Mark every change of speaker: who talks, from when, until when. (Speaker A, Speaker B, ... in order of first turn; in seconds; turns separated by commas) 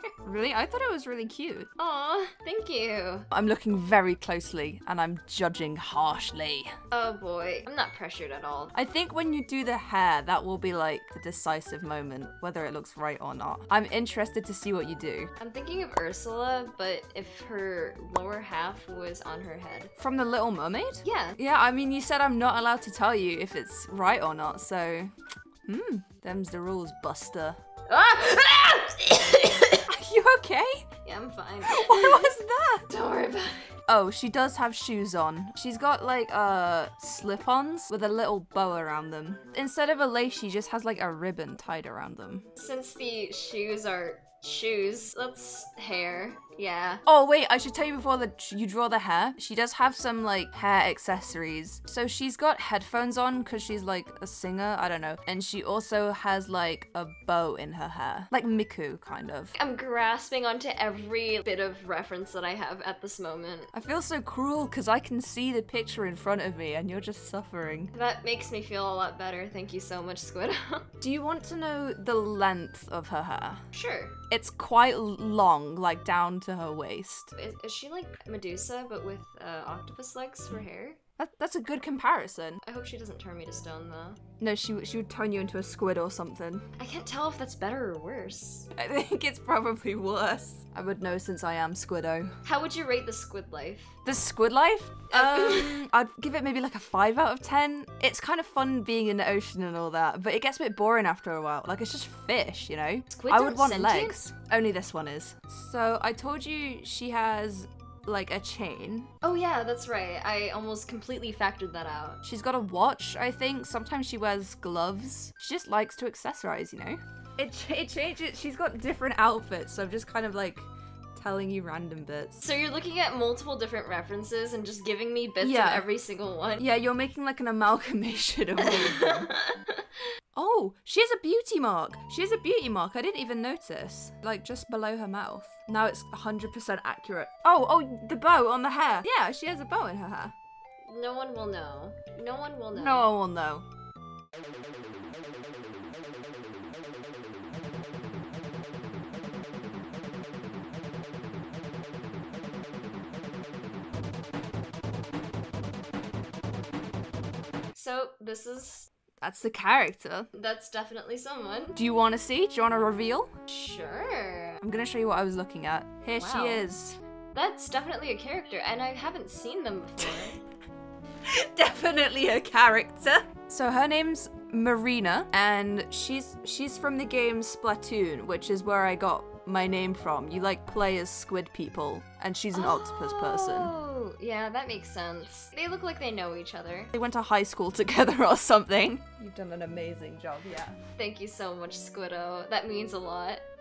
Speaker A: 0.2-1.7, Speaker B: 1.8-3.2, Speaker A: 3.3-6.7, Speaker B: 6.9-8.7, Speaker A: 8.7-15.3, Speaker B: 15.4-19.9, Speaker A: 20.0-25.1, Speaker B: 21.0-21.4, Speaker A: 25.6-27.6, Speaker B: 27.9-29.8, Speaker A: 29.9-30.8, Speaker B: 31.0-33.6, Speaker A: 31.6-32.8, Speaker A: 33.9-42.5, Speaker B: 42.6-47.0, Speaker A: 47.0-59.5, Speaker B: 59.5-63.7, Speaker A: 63.7-67.9, Speaker B: 67.9-70.9, Speaker A: 71.0-73.6, Speaker B: 73.7-74.1, Speaker A: 74.3-77.3, Speaker B: 77.3-81.0, Speaker A: 81.2-82.6, Speaker B: 82.6-84.2, Speaker A: 84.4-86.6, Speaker B: 86.8-88.7, Speaker A: 88.8-92.3, Speaker B: 92.4-93.9, Speaker A: 94.0-109.1, Speaker B: 95.1-95.8, Speaker B: 103.1-104.2, Speaker B: 109.2-112.2, Speaker A: 112.2-122.4, Speaker B: 122.4-126.7, Speaker A: 125.4-125.8, Speaker A: 126.6-129.3, Speaker B: 128.6-129.8, Speaker A: 130.3-140.3, Speaker B: 140.8-143.1, Speaker A: 142.7-143.6, Speaker B: 157.7-158.9, Speaker A: 159.2-160.3, Speaker B: 160.3-161.8, Speaker A: 161.8-163.3, Speaker B: 163.5-164.6, Speaker A: 164.6-167.0, Speaker B: 166.1-166.7, Speaker B: 167.3-170.4, Speaker A: 171.3-183.7, Speaker B: 182.5-186.9, Speaker A: 186.9-190.8, Speaker B: 191.0-193.4